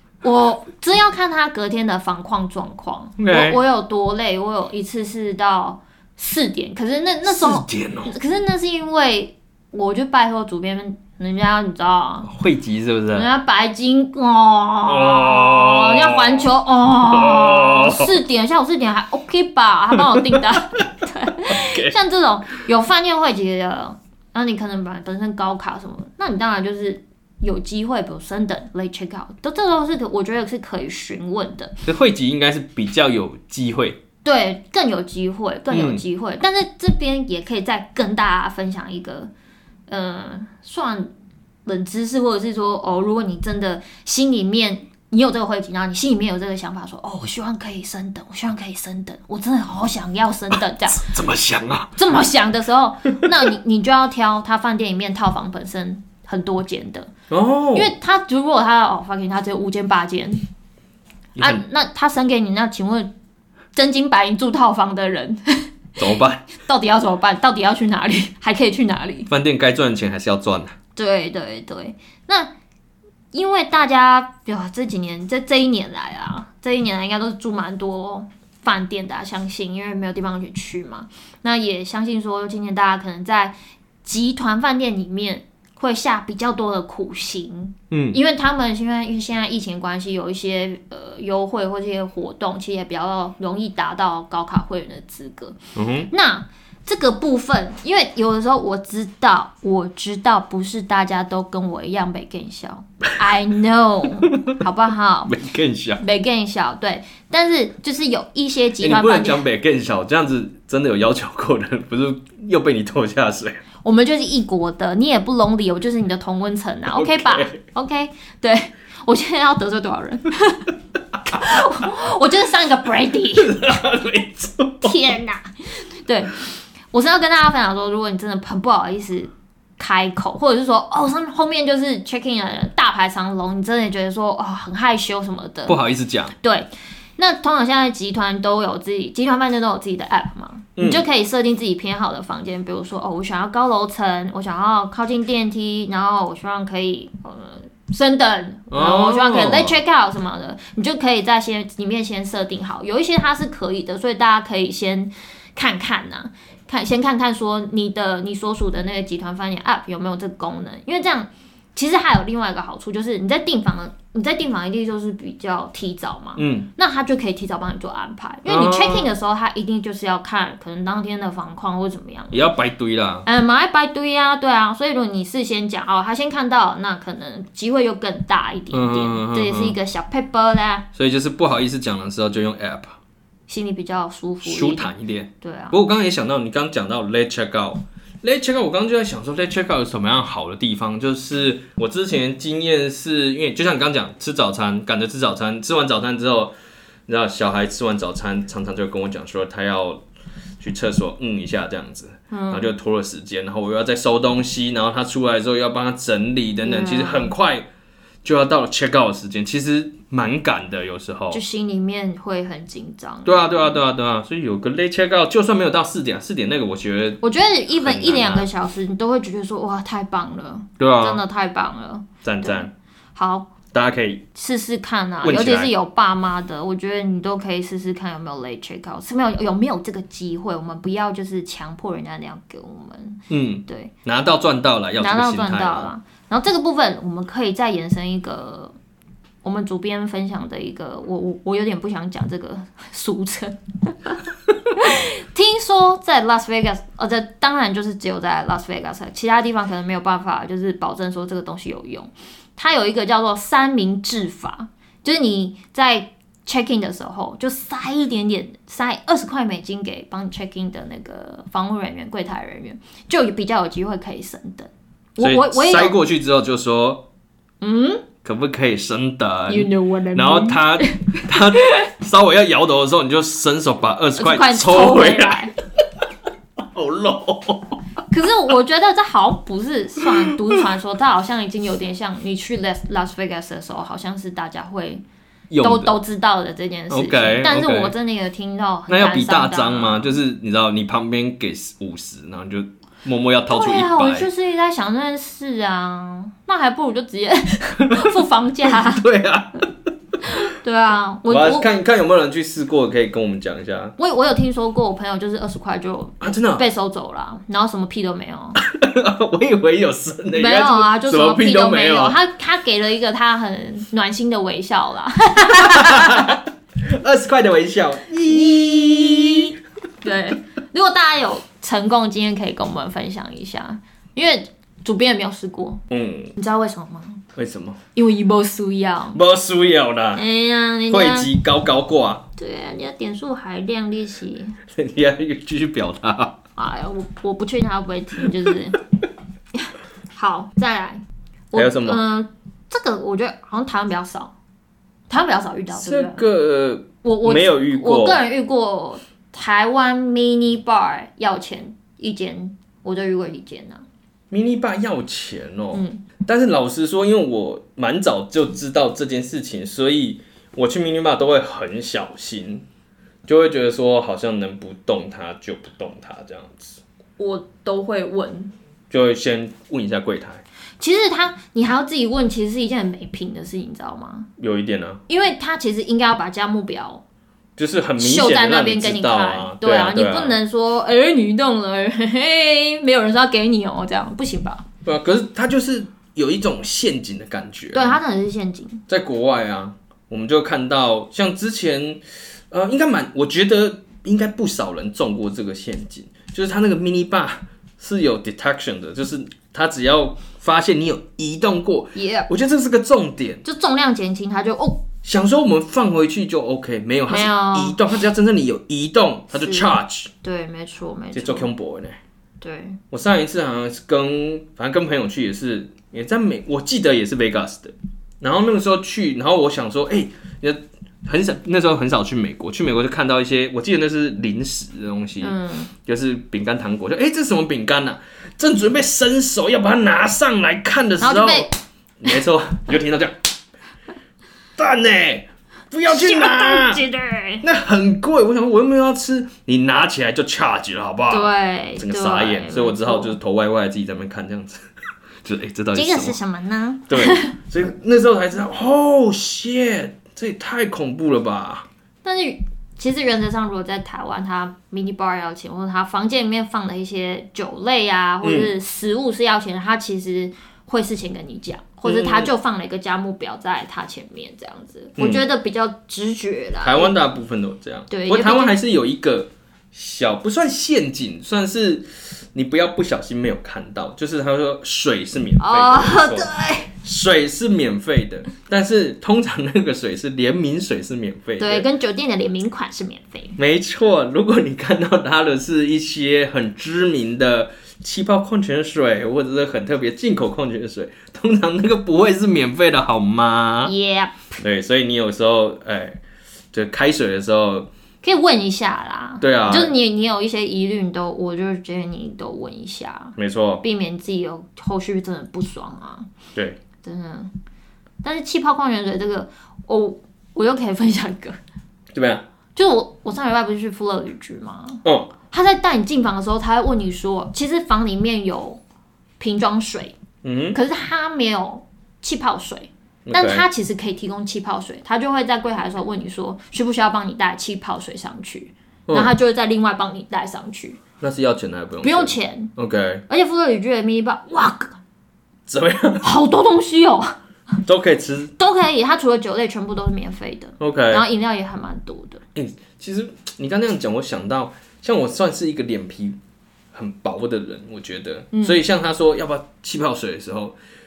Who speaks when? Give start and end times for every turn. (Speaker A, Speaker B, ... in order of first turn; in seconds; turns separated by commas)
Speaker A: 0.2-12.3, Speaker B: 3.2-3.6, Speaker B: 7.2-8.1, Speaker B: 12.3-13.3, Speaker A: 13.1-31.8, Speaker B: 14.9-16.5, Speaker B: 17.1-18.1, Speaker B: 20.0-20.4, Speaker B: 21.5-21.9, Speaker B: 31.9-34.0, Speaker A: 34.2-39.3, Speaker B: 35.7-36.0, Speaker A: 39.9-41.1, Speaker A: 41.7-51.1, Speaker B: 50.9-52.0, Speaker A: 52.0-57.1, Speaker B: 57.3-57.9, Speaker A: 57.8-60.4, Speaker B: 61.4-61.6, Speaker A: 61.4-63.1, Speaker A: 63.8-69.3, Speaker B: 66.0-66.5, Speaker B: 69.3-70.8, Speaker A: 71.0-72.5, Speaker A: 73.3-95.6, Speaker B: 87.9-88.2, Speaker B: 95.8-96.1, Speaker A: 96.1-105.4, Speaker B: 105.3-106.0, Speaker A: 106.0-109.4, Speaker B: 108.8-113.6, Speaker A: 113.8-120.7, Speaker B: 116.9-117.6, Speaker A: 121.3-123.8, Speaker B: 123.3-125.0, Speaker A: 124.8-135.8, Speaker B: 135.7-136.3, Speaker A: 136.4-172.4, Speaker B: 140.8-141.0, Speaker B: 148.7-149.8, Speaker B: 166.4-166.7, Speaker B: 168.5-169.1, Speaker B: 172.3-173.3, Speaker A: 173.3-180.9, Speaker B: 178.7-179.8, Speaker B: 180.9-183.0, Speaker A: 183.5-185.8, Speaker B: 184.4-196.5, Speaker B: 197.1-200.0, Speaker B: 200.6-207.7, Speaker A: 202.3-202.7, Speaker A: 206.6-207.3, Speaker B: 208.2-211.4, Speaker A: 211.3-213.8, Speaker B: 213.2-218.5, Speaker A: 217.2-223.5, Speaker B: 220.8-221.2, Speaker B: 222.2-222.7, Speaker B: 223.7-224.2, Speaker A: 224.3-233.9, Speaker B: 225.2-225.7, Speaker B: 233.3-235.9, Speaker A: 235.0-238.8, Speaker A: 239.4-244.2, Speaker A: 244.8-266.0, Speaker B: 265.2-267.1, Speaker A: 267.6-268.0, Speaker B: 268.2-275.5, Speaker A: 269.5-271.9, Speaker A: 274.2-275.6, Speaker B: 276.6-277.8, Speaker A: 278.1-285.0, Speaker B: 280.0-280.6, Speaker B: 285.5-285.9, Speaker A: 285.6-290.2, Speaker B: 286.9-287.9, Speaker B: 288.9-294.3, Speaker A: 293.5-299.1, Speaker B: 297.8-299.7, Speaker A: 300.2-301.7, Speaker B: 301.3-303.9, Speaker A: 304.0-308.6, Speaker B: 306.2-306.6, Speaker B: 308.6-312.2, Speaker A: 310.3-316.4, Speaker B: 315.6-319.5, Speaker A: 318.3-325.8, Speaker B: 325.9-326.3, Speaker A: 326.4-327.2, Speaker B: 327.4-327.8, Speaker A: 327.9-329.2, Speaker B: 329.1-330.2, Speaker A: 330.1-331.3, Speaker B: 330.9-332.2, Speaker A: 332.4-334.6, Speaker B: 334.7-336.4, Speaker A: 336.6-338.8, Speaker A: 339.5-344.3, Speaker B: 341.5-342.0, Speaker A: 345.1-346.2, Speaker B: 345.7-348.2, Speaker A: 347.0-353.9, Speaker B: 354.3-362.6, Speaker A: 355.7-356.0, Speaker B: 363.3-366.8, Speaker A: 367.2-368.5, Speaker B: 368.9-370.4, Speaker A: 370.8-374.3, Speaker B: 374.4-375.0, Speaker A: 375.1-377.0, Speaker B: 377.6-380.4, Speaker A: 378.0-384.7, Speaker B: 384.9-388.0, Speaker A: 387.7-388.8, Speaker B: 388.9-403.4, Speaker A: 401.9-402.3, Speaker A: 403.4-404.8, Speaker B: 405.0-410.1, Speaker A: 407.1-407.8, Speaker A: 409.3-411.5, Speaker B: 411.1-412.0, Speaker A: 412.4-412.8, Speaker B: 412.9-433.2, Speaker A: 425.2-425.7, Speaker A: 431.0-431.5, Speaker B: 434.6-436.8, Speaker A: 435.9-437.4, Speaker B: 437.4-444.6, Speaker A: 441.1-443.2, Speaker B: 445.2-446.2, Speaker A: 445.7-447.3, Speaker B: 446.9-451.7, Speaker A: 452.0-466.9, Speaker B: 458.2-458.5, Speaker B: 461.9-462.3, Speaker B: 465.0-465.2, Speaker B: 466.6-481.7, Speaker A: 467.9-468.6, Speaker A: 475.4-476.7, Speaker A: 481.4-483.4, Speaker B: 483.4-493.7, Speaker A: 493.6-494.4, Speaker B: 494.4-496.0, Speaker B: 496.5-497.7, Speaker A: 498.0-506.1, Speaker B: 499.2-499.7, Speaker B: 503.2-503.6, Speaker A: 506.8-507.3, Speaker A: 508.0-511.4, Speaker B: 511.9-512.2, Speaker A: 512.6-518.6, Speaker B: 514.8-515.1, Speaker A: 519.2-519.9, Speaker B: 520.2-520.6, Speaker A: 520.5-530.8, Speaker B: 523.1-523.5, Speaker B: 528.9-529.1, Speaker B: 531.0-533.0, Speaker A: 531.8-532.5, Speaker A: 533.1-534.8, Speaker B: 535.5-536.1, Speaker A: 536.0-537.2, Speaker B: 537.7-538.3, Speaker A: 538.4-542.2, Speaker B: 540.6-541.0, Speaker B: 542.4-546.2, Speaker B: 546.7-550.6, Speaker A: 548.3-548.6